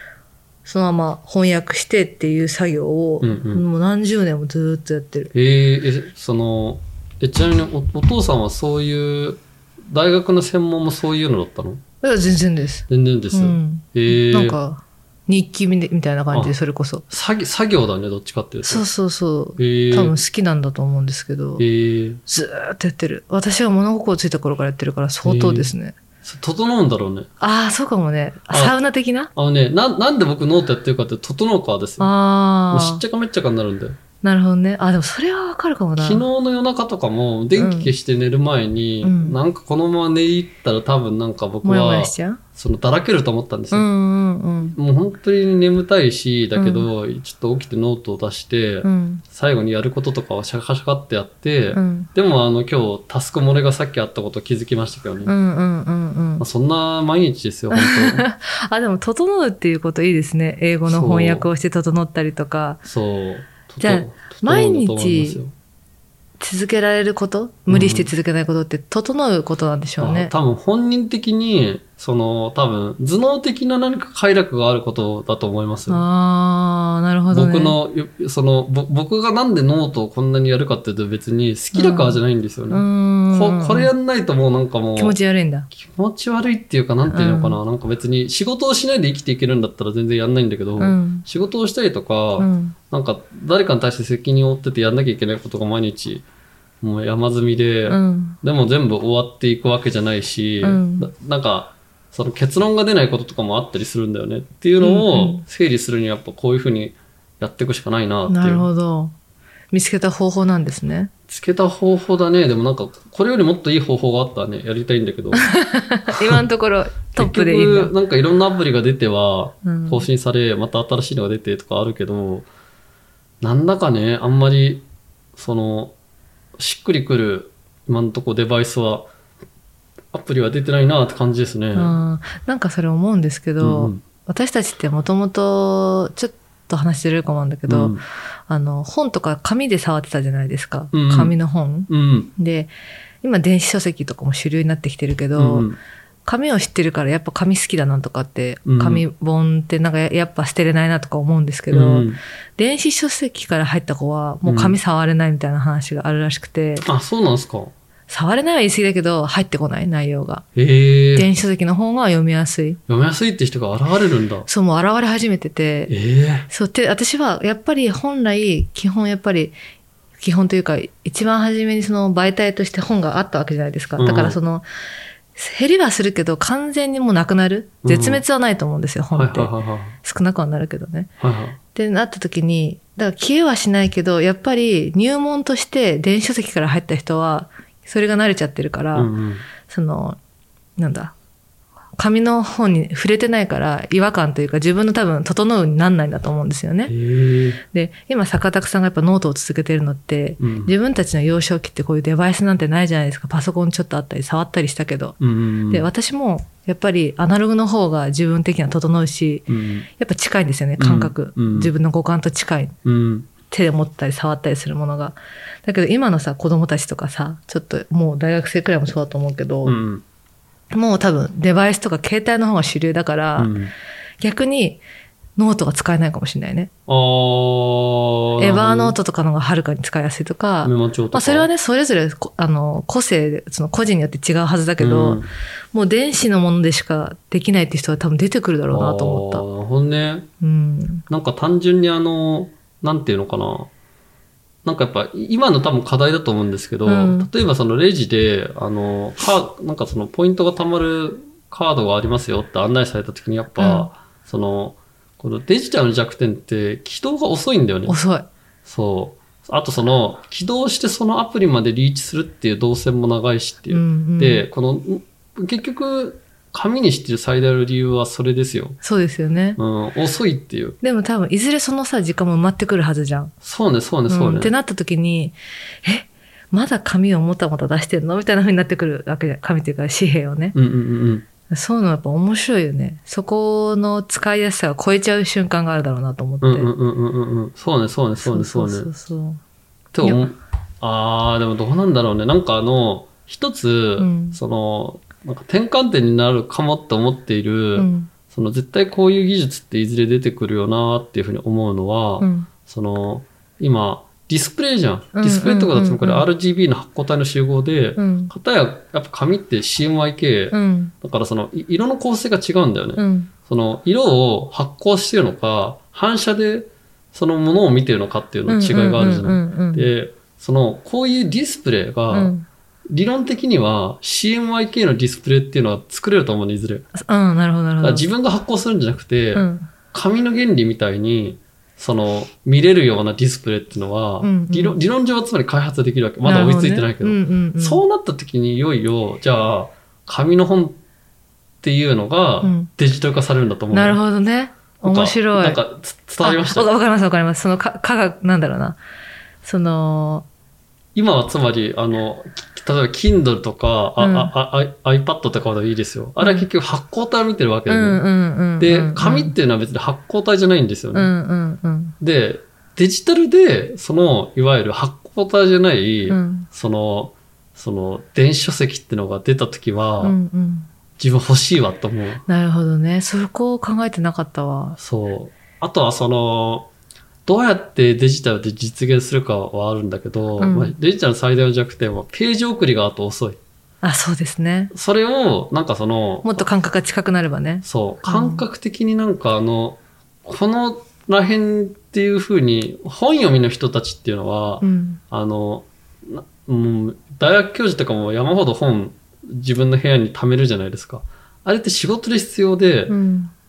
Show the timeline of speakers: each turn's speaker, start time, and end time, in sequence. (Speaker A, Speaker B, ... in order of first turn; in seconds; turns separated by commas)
Speaker A: 0.6-5.3, Speaker B: 3.2-3.6, Speaker B: 5.3-11.8, Speaker A: 12.0-17.0, Speaker B: 12.9-14.6, Speaker B: 17.1-18.9, Speaker A: 18.6-21.6, Speaker B: 19.6-20.1, Speaker B: 21.6-22.2, Speaker A: 22.3-25.9, Speaker B: 25.2-25.7, Speaker B: 26.2-27.3, Speaker A: 27.4-29.3, Speaker B: 29.3-32.1, Speaker A: 32.0-33.0, Speaker B: 32.7-34.0, Speaker A: 34.2-36.2, Speaker B: 36.0-43.9, Speaker A: 37.5-37.9, Speaker A: 39.0-39.4, Speaker A: 41.6-42.4, Speaker A: 43.7-44.8, Speaker B: 44.7-55.3, Speaker A: 46.5-46.9, Speaker A: 48.8-49.2, Speaker A: 51.7-52.1, Speaker A: 55.2-56.5, Speaker B: 56.4-58.2, Speaker A: 57.7-62.8, Speaker B: 60.9-61.5, Speaker B: 62.8-65.5, Speaker A: 63.8-65.4, Speaker A: 66.4-70.3, Speaker B: 67.7-68.1, Speaker B: 70.0-76.0, Speaker A: 75.9-77.8, Speaker B: 77.3-85.2, Speaker A: 81.7-82.2, Speaker A: 82.7-83.9, Speaker A: 85.0-85.7, Speaker B: 85.7-96.2, Speaker A: 87.1-87.6, Speaker A: 90.8-91.2, Speaker A: 92.4-92.8, Speaker B: 96.8-108.7, Speaker A: 97.9-98.4, Speaker A: 100.6-101.1, Speaker A: 104.8-105.4, Speaker A: 108.3-109.1, Speaker A: 109.7-111.1, Speaker B: 111.3-115.5, Speaker A: 115.3-117.9, Speaker B: 117.2-122.5, Speaker A: 119.6-120.0, Speaker B: 123.4-124.8, Speaker B: 125.3-125.9, Speaker B: 126.6-129.1, Speaker B: 130.1-132.0, Speaker A: 131.7-142.7, Speaker B: 133.6-134.0, Speaker B: 137.7-138.0, Speaker B: 140.9-141.3, Speaker B: 141.9-142.3, Speaker A: 143.2-145.7, Speaker B: 145.3-145.8, Speaker A: 146.2-156.8, Speaker B: 148.7-149.0, Speaker B: 151.7-152.2, Speaker B: 154.4-154.8, Speaker B: 156.8-157.7, Speaker A: 158.1-160.4, Speaker B: 160.5-161.3, Speaker A: 161.1-162.8, Speaker B: 162.9-164.5, Speaker A: 164.5-165.9, Speaker B: 165.9-166.5, Speaker A: 166.5-169.5, Speaker A: 170.2-174.6, Speaker B: 174.0-174.4, Speaker A: 175.3-181.1, Speaker B: 177.8-178.2, Speaker B: 179.1-179.9, Speaker B: 181.2-181.6, Speaker A: 181.7-189.1, Speaker B: 188.9-189.5, Speaker A: 189.6-190.2, Speaker A: 190.8-191.1, Speaker A: 192.0-196.9, Speaker B: 196.9-197.6, Speaker A: 197.7-205.2, Speaker B: 200.4-200.7, Speaker B: 205.2-205.9, Speaker A: 205.7-212.8, Speaker B: 209.5-209.9, Speaker B: 210.8-211.7, Speaker B: 212.8-213.3, Speaker A: 213.5-219.8, Speaker B: 219.6-220.0, Speaker A: 220.7-223.5, Speaker B: 223.4-223.7, Speaker A: 224.2-224.8, Speaker A: 225.4-226.7, Speaker B: 226.9-228.9, Speaker A: 228.4-235.2, Speaker B: 230.6-231.5, Speaker B: 234.8-235.3, Speaker A: 235.7-239.4, Speaker B: 238.7-240.3, Speaker A: 240.4-241.0, Speaker B: 241.1-243.7, Speaker B: 244.6-258.0, Speaker A: 246.8-247.3, Speaker A: 253.6-253.9, Speaker A: 257.9-258.3, Speaker B: 258.6-268.8, Speaker A: 263.7-264.4, Speaker A: 268.8-269.6, Speaker B: 269.6-270.8, Speaker A: 270.8-273.3, Speaker B: 273.4-274.5, Speaker A: 274.1-280.6, Speaker B: 280.5-281.2, Speaker A: 281.5-286.7, Speaker B: 286.4-288.9, Speaker A: 288.2-289.4, Speaker B: 289.9-322.3, Speaker A: 290.0-290.3, Speaker A: 294.0-294.4, Speaker A: 297.8-298.1, Speaker A: 302.2-302.5, Speaker A: 305.1-306.2, Speaker A: 308.0-308.3, Speaker A: 310.5-310.9, Speaker A: 313.0-313.3, Speaker A: 318.5-319.9, Speaker A: 322.1-322.4, Speaker B: 322.9-326.8, Speaker A: 326.9-328.1, Speaker B: 327.8-340.8, Speaker A: 329.3-329.7, Speaker A: 334.2-334.8, Speaker A: 336.2-337.8, Speaker B: 341.6-344.0, Speaker A: 342.4-342.7, Speaker A: 343.7-345.6, Speaker B: 344.8-346.7, Speaker A: 346.2-348.8, Speaker A: 349.4-350.2, Speaker B: 350.9-358.0, Speaker A: 354.0-354.3, Speaker A: 356.2-356.5, Speaker A: 357.7-359.3, Speaker B: 358.6-361.1, Speaker A: 360.9-361.9, Speaker B: 362.0-370.2, Speaker A: 366.1-366.5, Speaker A: 370.0-370.7, Speaker B: 371.0-372.2, Speaker A: 372.3-374.8, Speaker B: 374.8-376.7, Speaker B: 377.2-383.4, Speaker A: 380.4-380.7, Speaker A: 383.8-384.7, Speaker B: 384.7-386.4, Speaker A: 386.2-388.4, Speaker B: 387.6-402.9, Speaker A: 394.6-395.0, Speaker A: 402.9-403.3